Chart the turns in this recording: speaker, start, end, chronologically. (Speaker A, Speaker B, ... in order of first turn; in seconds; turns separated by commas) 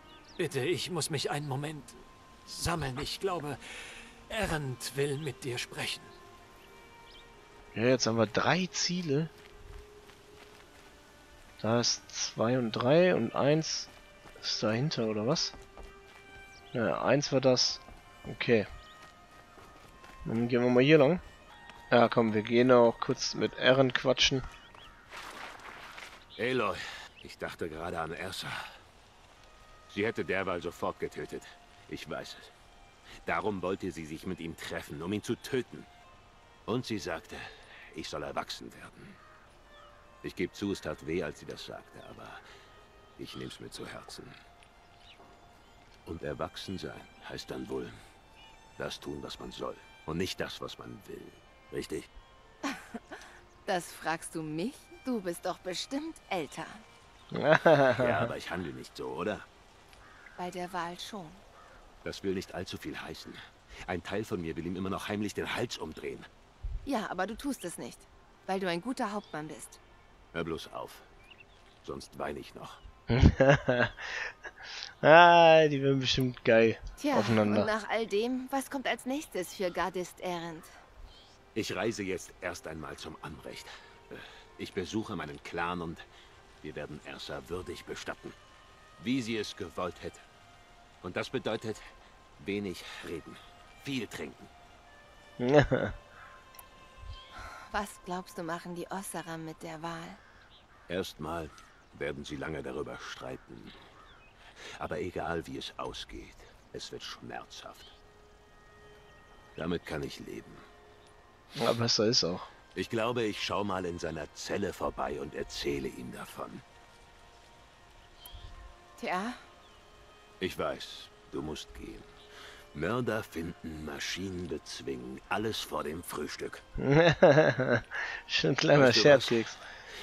Speaker A: 0.4-3.6, Speaker A: 4.3-6.1, Speaker B: 7.7-9.3, Speaker B: 11.6-15.6, Speaker B: 16.7-18.7, Speaker B: 20.2-21.2, Speaker B: 21.9-24.5, Speaker C: 26.4-28.6, Speaker C: 29.9-32.5, Speaker C: 33.2-35.9, Speaker C: 36.7-39.2, Speaker C: 40.2-42.4, Speaker C: 43.2-44.4, Speaker C: 46.1-48.0, Speaker C: 48.8-52.1, Speaker D: 52.7-56.8, Speaker B: 57.3-58.3, Speaker C: 58.0-59.5, Speaker D: 60.4-61.4, Speaker C: 62.0-66.3, Speaker D: 66.8-69.8, Speaker C: 70.3-71.1, Speaker C: 71.8-72.8, Speaker B: 73.1-74.3, Speaker B: 75.0-77.7, Speaker D: 77.0-80.7, Speaker C: 81.5-86.0, Speaker C: 86.6-88.4, Speaker C: 89.0-90.2, Speaker C: 91.0-91.8, Speaker C: 92.4-94.5, Speaker B: 95.4-96.0, Speaker D: 97.7-100.2, Speaker C: 100.9-103.8, Speaker C: 104.8-107.9, Speaker C: 109.6-110.6, Speaker B: 111.6-112.5, Speaker C: 112.8-116.6, Speaker D: 119.0-119.4, Speaker C: 120.4-122.1, Speaker C: 122.7-126.6, Speaker B: 126.8-129.6, Speaker C: 128.7-129.4